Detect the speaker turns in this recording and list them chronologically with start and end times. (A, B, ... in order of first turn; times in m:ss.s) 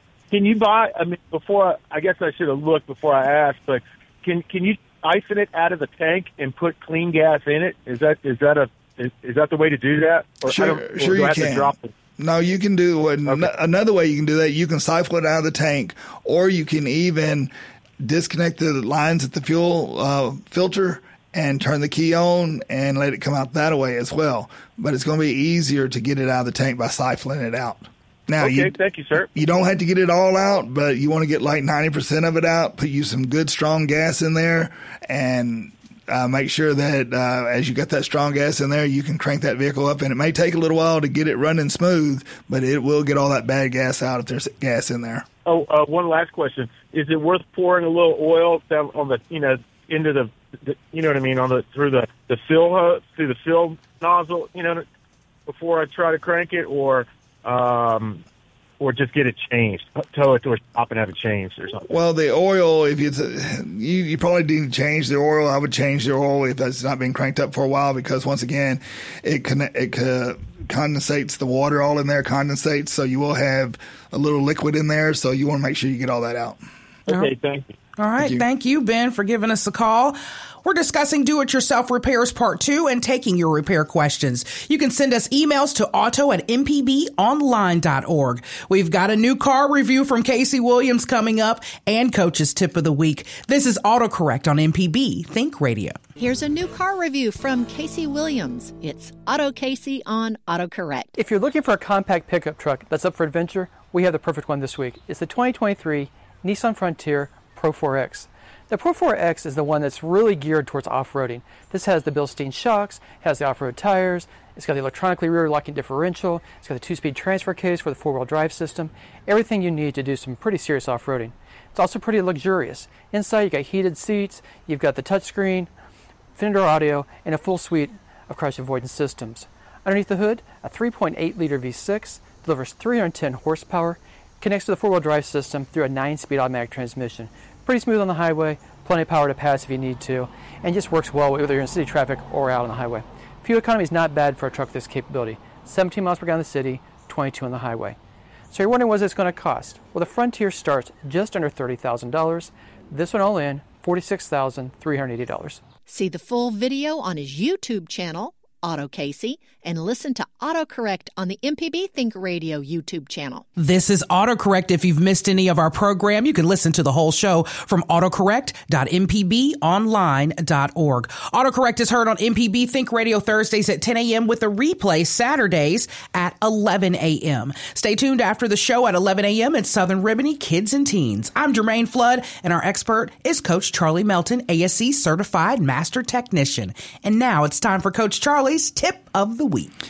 0:00.3-0:11.9 A
0:10.5-0:45.3 B
0:28.4-0:29.3 A
0:45.5-0:54.8 A
0:55.5-0:58.2 A
0:58.8-1:01.9 A
1:01.9-1:16.6 B
1:17.1-1:17.7 A
1:18.0-1:36.0 C
1:18.2-1:18.4 B
1:36.2-1:41.1 D
1:41.2-2:05.7 E
2:06.4-2:28.0 E
2:28.5-2:35.6 E
2:35.9-2:43.5 D
2:43.6-3:09.7 C